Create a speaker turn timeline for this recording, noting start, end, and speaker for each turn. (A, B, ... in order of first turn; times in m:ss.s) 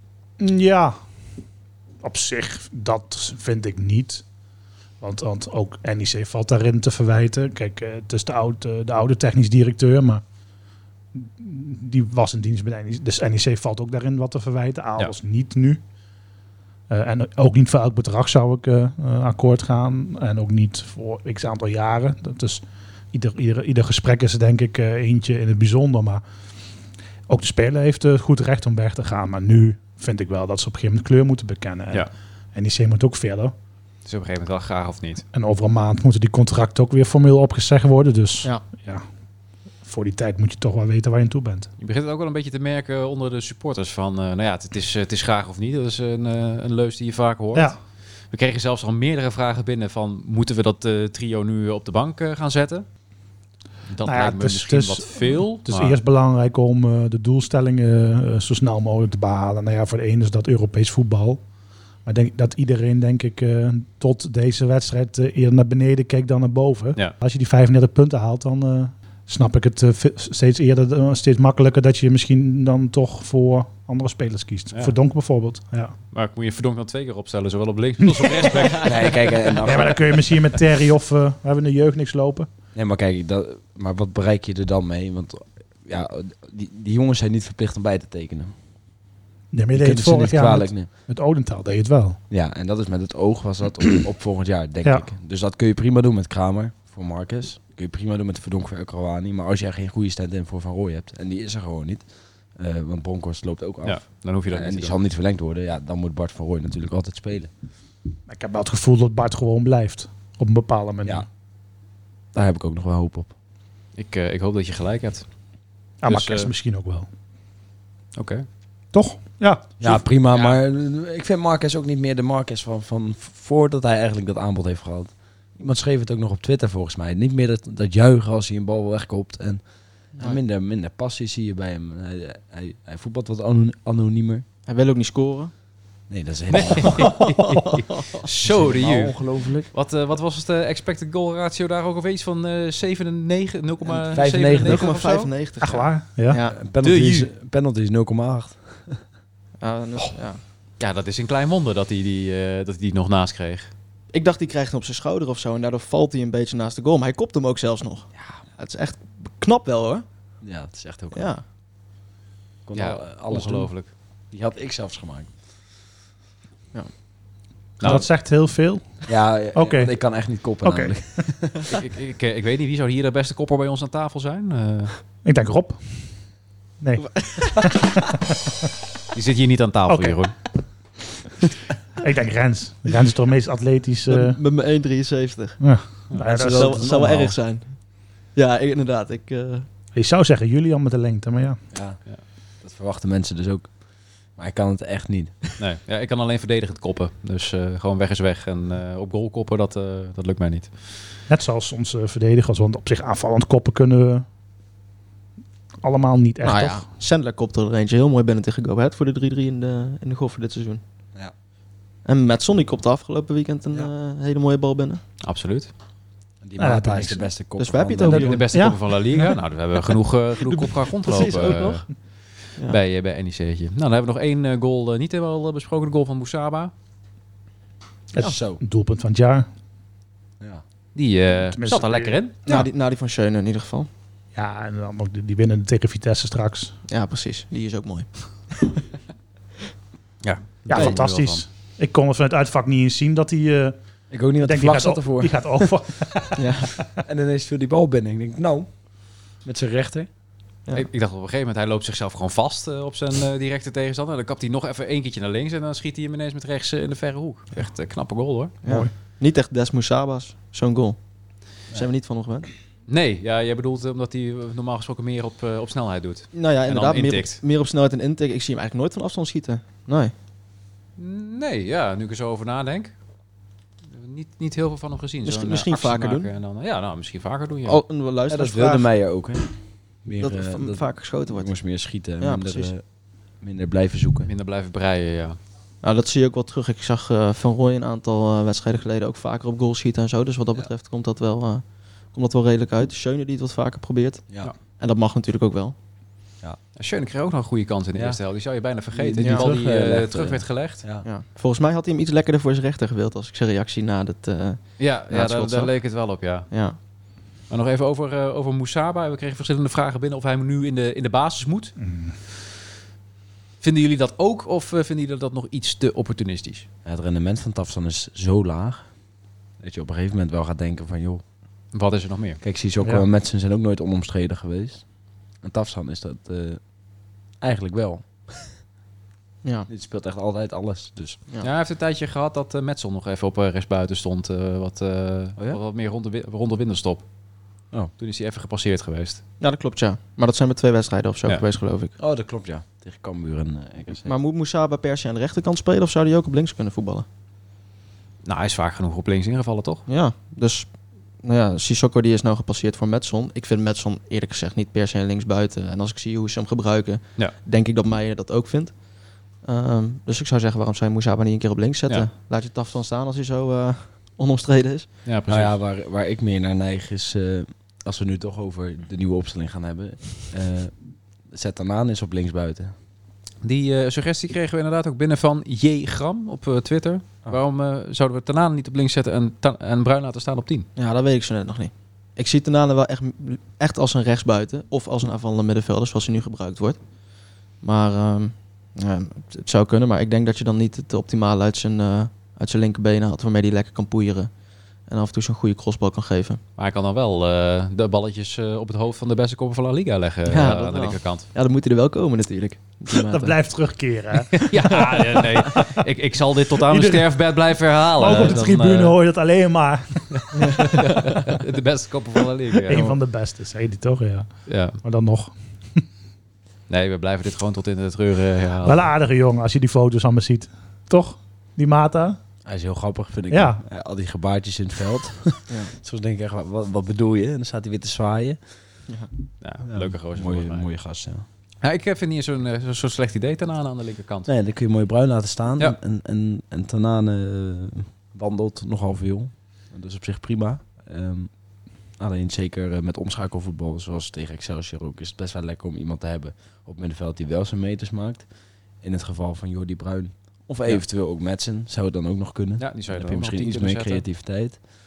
0:00.4-0:01.0 A
0:02.0-0:04.2 A
0:05.0-0:10.2 A
0:11.1-0:15.8 A
0:16.9-0:26.2 A
0:27.3-0:33.5 A
0:34.0-0:35.2 B
0:35.3-0:39.0 A
0:39.8-0:41.7 A
0:41.8-0:47.7 B
0:48.3-0:52.9 B
0:53.9-0:56.0 B
0:54.0-1:01.4 A
1:02.0-1:15.9 A
1:16.1-1:19.8 B
1:18.8-1:20.2 C
1:19.6-1:22.5 A
1:22.8-1:28.6 C
1:29.5-1:32.2 A
1:29.8-1:30.9 C
1:32.3-1:47.5 C
1:43.8-1:45.0 B
1:48.3-1:51.2 A
1:52.3-1:53.3 C
1:54.0-1:55.2 B
1:56.0-1:57.1 A
1:56.1-1:56.5 B
1:58.1-1:58.5 B
1:58.9-2:00.0 A
1:59.8-2:09.6 C
2:10.2-2:14.4 C
2:14.7-2:15.5 D
2:16.1-2:17.1 C
2:16.5-2:19.2 B
2:18.4-2:19.7 C
2:19.7-2:25.3 B
2:24.1-2:24.9 C
2:24.6-2:26.5 D
2:25.6-2:26.4 A
2:26.5-2:29.0 C
2:26.8-2:27.3 B
2:29.6-2:30.4 D
2:30.8-2:33.7 B
2:34.1-2:40.0 D
2:40.4-2:41.3 C
2:41.1-2:41.4 D
2:42.7-2:43.7 C
2:42.8-2:43.9 B
2:44.3-2:45.3 C
2:47.8-2:48.0 B
2:47.8-2:51.3 A
2:49.1-2:51.7 C
2:51.7-2:54.9 B
2:55.2-2:56.0 A
2:56.8-2:58.2 A
2:57.1-2:57.9 D
2:59.1-3:00.3 B
2:59.9-3:00.2 A
3:02.0-3:04.4 A
3:04.1-3:05.6 D
3:05.6-3:06.8 A
3:06.2-3:07.4 C
3:06.4-3:07.8 D
3:08.3-3:09.7 D
3:10.0-3:11.6 A
3:11.7-3:12.0 C
3:12.6-3:13.8 C
3:14.3-3:15.4 C
3:15.6-3:20.7 B
3:21.3-3:24.2 A
3:25.8-3:26.8 A
3:26.4-3:30.8 D
3:32.0-3:35.0 D
3:35.2-3:35.7 B
3:36.4-3:38.3 C
3:36.6-3:37.2 A
3:37.6-3:38.5 D
3:38.1-3:41.9 B
3:38.3-3:39.3 A
3:41.0-3:41.8 D
3:41.2-3:41.6 C
3:42.6-3:46.7 B
3:48.1-3:49.5 A
3:48.2-3:48.6 C
3:51.0-3:52.4 B
3:51.5-3:52.2 A
3:52.5-3:53.9 D
3:54.3-3:56.8 A
3:56.9-3:58.8 D
4:00.2-4:01.4 B
4:00.7-4:03.8 A
4:00.7-4:01.0 D
4:04.1-4:05.7 C
4:04.4-4:06.9 A
4:06.4-4:06.8 D
4:06.8-4:08.8 C
4:09.4-4:10.1 C
4:10.7-4:18.5 B
4:18.6-4:21.0 D
4:18.6-4:18.9 A
4:21.7-4:22.5 D
4:22.9-4:27.4 B
4:26.3-4:30.1 D
4:31.0-4:32.9 B
4:33.9-4:37.8 B
4:35.2-4:36.3 D
4:37.7-4:38.9 D
4:38.3-4:42.8 C
4:40.2-4:41.5 D
4:42.2-4:42.7 D
4:43.4-4:44.3 C
4:44.2-4:45.4 B
4:45.8-4:55.8 D
4:56.8-5:00.8 B
4:57.9-4:58.2 C
4:58.9-5:01.1 C
5:01.0-5:05.7 D
5:04.8-5:06.5 B
5:06.5-5:06.8 D
5:07.5-5:11.7 B
5:11.8-5:12.2 A
5:13.6-5:16.7 B
5:16.8-5:18.9 C
5:19.6-5:21.2 C
5:21.7-5:22.4 B
5:22.4-5:24.8 C
5:25.4-5:26.6 C
5:27.4-5:28.5 C
5:29.4-5:29.7 D
5:29.7-5:31.2 C
5:31.4-5:37.0 B
5:38.0-5:39.2 B
5:39.4-5:42.0 D
5:42.0-5:44.2 C
5:44.0-5:47.0 D
5:48.2-5:49.8 B
5:49.9-5:50.7 D
5:51.2-5:58.8 D
5:59.4-6:04.9 D
6:05.0-6:05.6 B
6:05.3-6:10.7 C
6:11.3-6:12.7 C
6:13.4-6:20.7 B
6:20.8-6:26.8 D
6:27.6-6:34.3 D
6:34.9-6:36.4 D
6:36.6-6:41.3 B
6:40.2-6:43.3 D
6:43.1-6:44.8 A
6:44.4-6:49.0 B
6:44.8-6:45.2 D
6:46.7-6:47.1 A
6:48.0-6:50.8 A
6:50.1-6:52.9 B
6:52.7-6:55.8 A
6:54.5-6:54.8 B
6:56.7-6:58.9 B
6:58.6-7:02.2 A
7:02.4-7:08.4 C
7:03.3-7:03.6 A
7:09.4-7:10.7 B
7:09.6-7:11.2 C
7:11.6-7:14.3 B
7:14.2-7:21.3 C
7:22.0-7:28.3 C
7:28.8-7:34.7 C
7:32.6-7:34.0 B